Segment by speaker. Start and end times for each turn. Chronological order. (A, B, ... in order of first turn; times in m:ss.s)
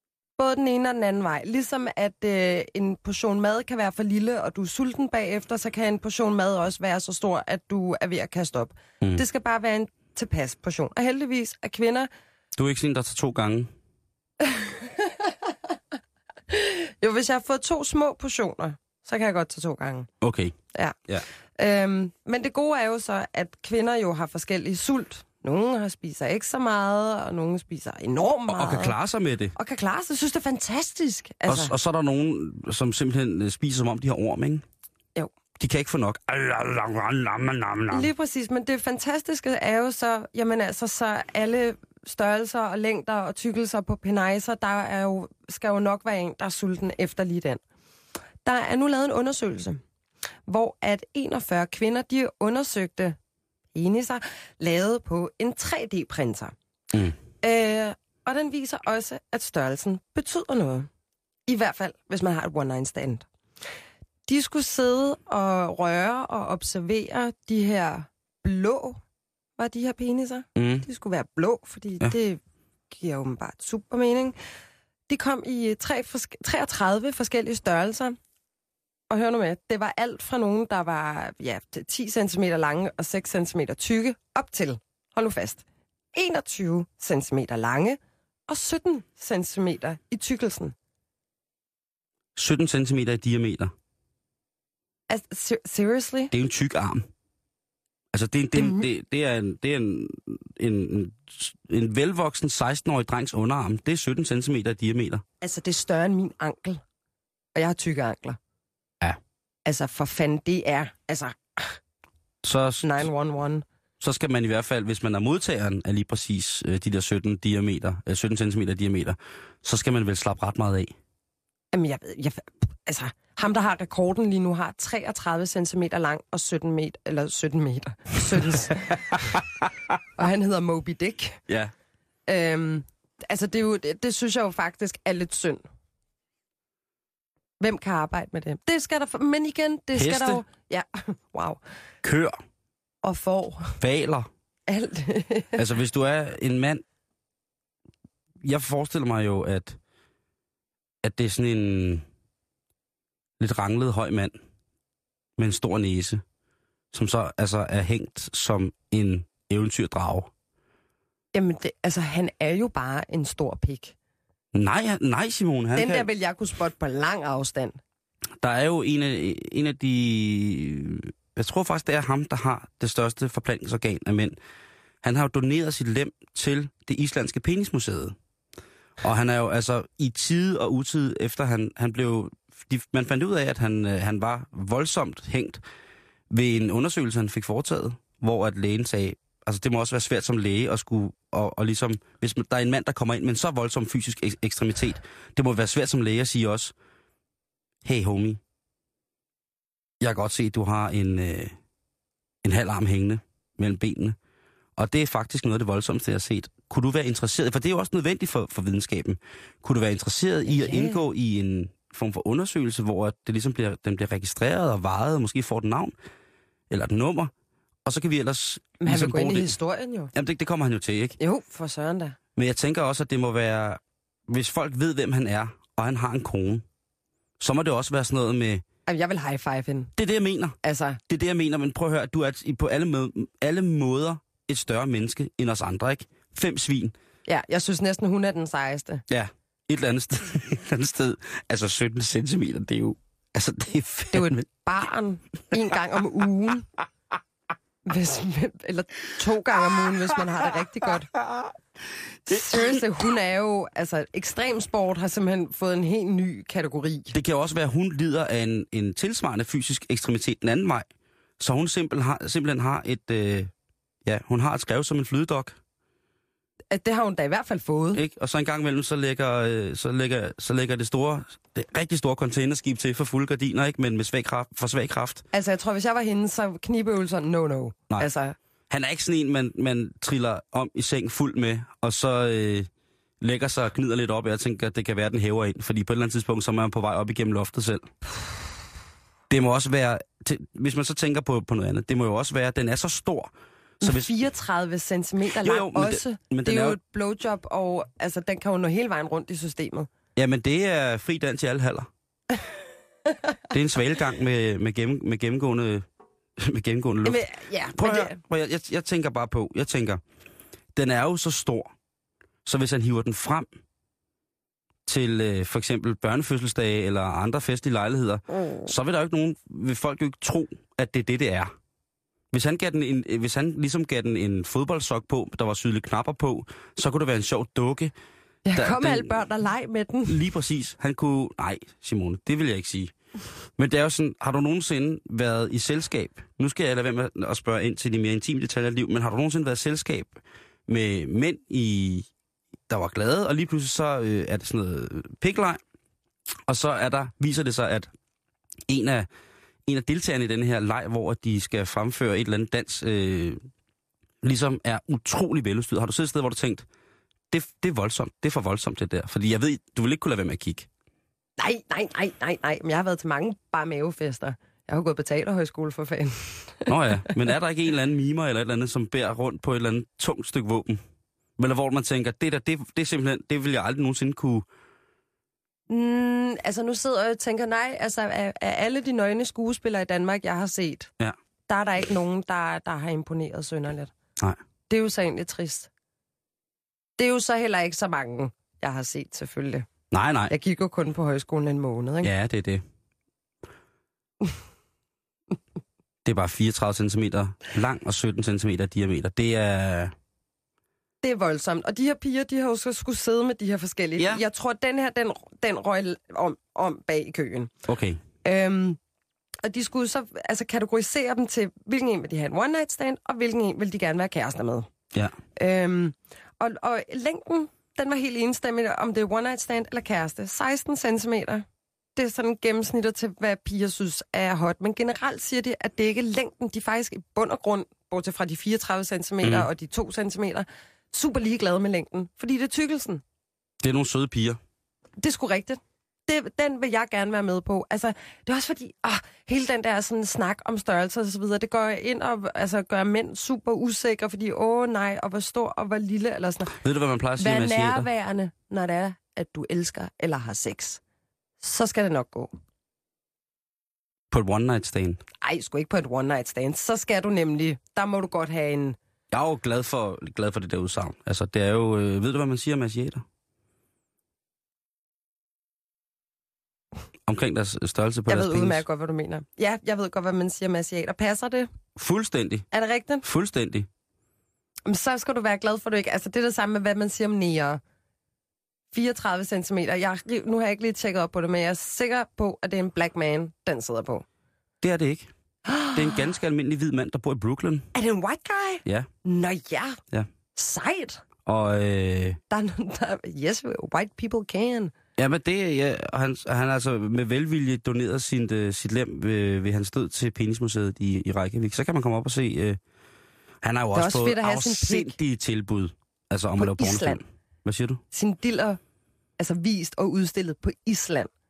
0:00.4-0:12.1 A
0:12.6-0:13.7 B
0:14.4-0:15.5 A
0:16.5-0:20.1 A
0:20.2-0:20.6 B
0:21.6-0:29.0 A
0:28.5-0:29.6 B
0:29.6-0:31.7 A
0:31.5-0:34.6 B
0:35.6-0:38.1 B
0:37.9-0:47.6 A
0:48.4-0:49.8 A
0:50.5-0:53.2 A
0:53.8-0:56.5 A
0:57.4-1:00.9 A
1:01.5-1:03.3 A
1:04.3-1:09.0 A
1:09.6-1:12.4 A
1:10.6-1:10.9 B
1:12.9-1:14.4 A
1:15.1-1:18.2 A
1:19.1-1:30.8 A
1:32.4-1:33.7 B
1:35.1-1:36.3 A
1:36.3-1:37.1 B
1:38.1-1:45.2 B
1:45.4-1:46.8 A
1:47.6-1:48.4 A
1:49.7-1:51.8 A
1:52.4-1:53.1 B
1:52.8-1:53.6 A
1:54.0-2:00.9 B
2:01.7-2:09.3 A
2:09.1-2:09.7 B
2:10.2-2:11.4 A
2:12.3-2:15.6 A
2:17.6-2:21.6 A
2:20.0-2:20.4 B
2:22.0-2:22.4 B
2:23.0-2:23.8 A
2:23.8-2:24.3 B
2:24.7-2:25.6 A
2:25.6-2:26.8 B
2:28.4-2:29.8 B
2:31.0-2:32.0 B
2:33.4-2:34.4 B
2:35.4-2:36.2 B
2:36.9-2:40.3 B
2:41.3-2:44.0 A
2:44.5-2:46.1 B
2:45.8-2:47.8 A
2:48.4-2:54.4 B
2:55.0-2:58.2 B
2:59.0-3:05.6 B
3:06.3-3:16.7 B
3:17.8-3:18.4 B
3:20.0-3:21.6 B
3:22.4-3:24.2 B
3:24.8-3:35.9 B
3:30.5-3:31.0 A
3:36.7-3:37.3 B
3:37.8-3:39.6 B
3:38.8-3:40.1 A
3:40.1-3:41.2 B
3:41.2-3:42.2 A
3:42.4-3:46.6 B
3:47.4-3:48.6 B
3:48.9-3:49.9 A
3:50.0-3:50.6 B
3:50.6-3:51.0 A
3:51.1-3:57.0 B
3:57.3-3:59.0 A
3:59.1-4:04.5 B
4:04.1-4:06.7 A
4:07.9-4:11.1 A
4:12.3-4:17.2 A
4:12.3-4:12.8 B
4:17.1-4:20.9 B
4:21.4-4:23.5 B
4:24.1-4:25.6 B
4:26.7-4:28.0 A
4:27.9-4:35.2 B
4:35.3-4:38.4 A
4:38.7-4:42.7 B
4:43.2-4:47.9 B
4:49.3-4:54.1 B
4:53.8-4:59.9 A
4:55.4-4:56.8 B
5:00.2-5:01.9 B
5:03.5-5:05.8 B
5:06.4-5:10.0 B
5:07.0-5:08.2 A
5:10.8-5:11.7 B
5:12.4-5:13.5 B
5:14.9-5:21.5 B
5:22.3-5:27.9 B
5:28.5-5:30.2 A
5:28.5-5:29.2 B
5:30.1-5:32.9 B
5:33.6-5:42.1 B
5:42.7-5:45.6 B
5:46.5-5:47.9 B
5:48.7-5:49.1 B
5:49.7-5:53.4 B
5:54.2-5:56.7 B
5:57.3-6:00.7 B
6:01.4-6:06.7 A
6:06.7-6:10.8 B
6:11.4-6:14.5 B
6:15.7-6:20.9 A
6:21.5-6:23.9 A
6:24.7-6:25.7 A
6:27.0-6:29.7 A
6:29.9-6:30.3 B
6:30.3-6:32.1 A
6:32.0-6:32.6 B
6:36.0-6:39.9 B
6:41.0-6:47.5 A
6:44.0-6:44.2 B
6:47.7-6:48.0 B
6:48.2-6:48.8 A
6:49.4-6:54.7 A
6:55.4-7:01.4 A
7:02.0-7:13.0 A
7:09.2-7:09.5 B
7:13.6-7:14.4 B
7:15.0-7:26.5 A
7:26.6-7:27.9 B
7:27.2-7:30.8 A
7:31.4-7:32.3 A
7:34.1-7:35.0 B
7:35.2-7:38.8 A
7:39.1-7:43.0 B
7:47.1-7:48.6 B
7:48.1-7:51.5 A
7:51.8-7:52.5 B
7:52.5-7:53.0 A
7:53.0-7:53.7 B
7:54.7-7:57.6 A
7:58.7-8:04.0 A
8:04.6-8:05.1 B
8:05.5-8:06.0 A
8:05.7-8:07.7 B
8:07.8-8:09.8 A
8:08.6-8:08.9 B
8:10.4-8:11.0 A
8:11.3-8:12.2 B
8:12.3-8:14.7 A
8:15.0-8:22.6 B
8:23.4-8:27.8 B
8:23.7-8:25.0 A
8:26.4-8:27.0 A
8:27.9-8:28.6 A
8:29.2-8:31.1 A